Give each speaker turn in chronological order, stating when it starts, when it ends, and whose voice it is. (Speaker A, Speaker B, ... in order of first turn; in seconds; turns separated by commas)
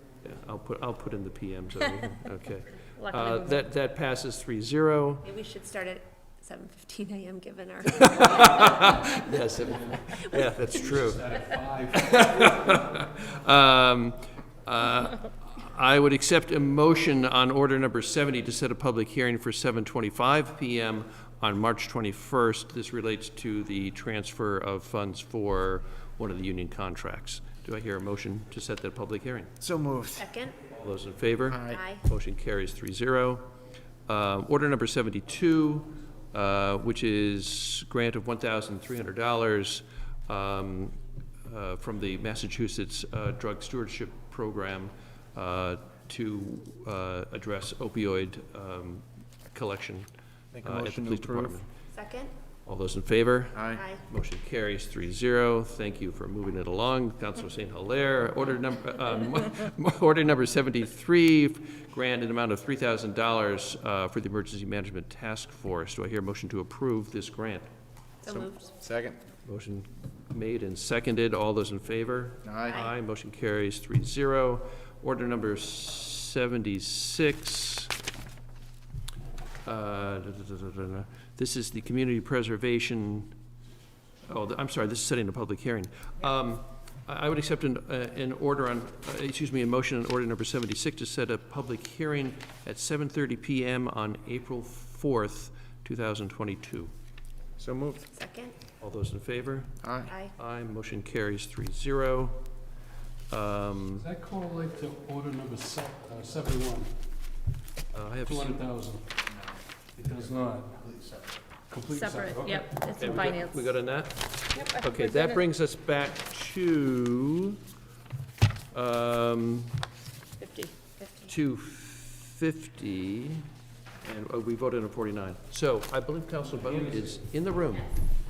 Speaker A: 0.2-5.3, Speaker B: 3.0-3.6, Speaker C: 5.2-8.8, Speaker A: 7.9-11.4, Speaker D: 9.6-12.8, Speaker A: 11.9-29.5, Speaker E: 29.6-30.3, Speaker C: 30.2-30.6, Speaker A: 30.7-33.4, Speaker E: 31.5-31.8, Speaker C: 31.7-32.0, Speaker A: 34.1-50.1, Speaker E: 50.5-51.6, Speaker A: 50.6-51.7, Speaker C: 51.9-52.3, Speaker A: 52.7-67.7, Speaker E: 53.5-53.8, Speaker C: 68.2-68.7, Speaker E: 68.3-69.2, Speaker A: 69.5-77.9, Speaker E: 72.4-72.8, Speaker A: 79.7-83.3, Speaker A: 84.2-96.9, Speaker E: 97.6-98.1, Speaker C: 98.1-98.6, Speaker A: 98.8-102.4, Speaker E: 99.8-100.1, Speaker A: 103.3-104.1, Speaker D: 104.0-106.9, Speaker A: 107.9-108.6, Speaker D: 108.2-109.2, Speaker D: 110.0-110.8, Speaker E: 110.8-111.2, Speaker D: 111.7-113.4, Speaker B: 111.9-113.7, Speaker A: 113.0-117.6, Speaker B: 114.5-115.4, Speaker A: 118.7-119.8, Speaker B: 120.4-121.1, Speaker A: 121.3-123.5, Speaker A: 124.0-127.9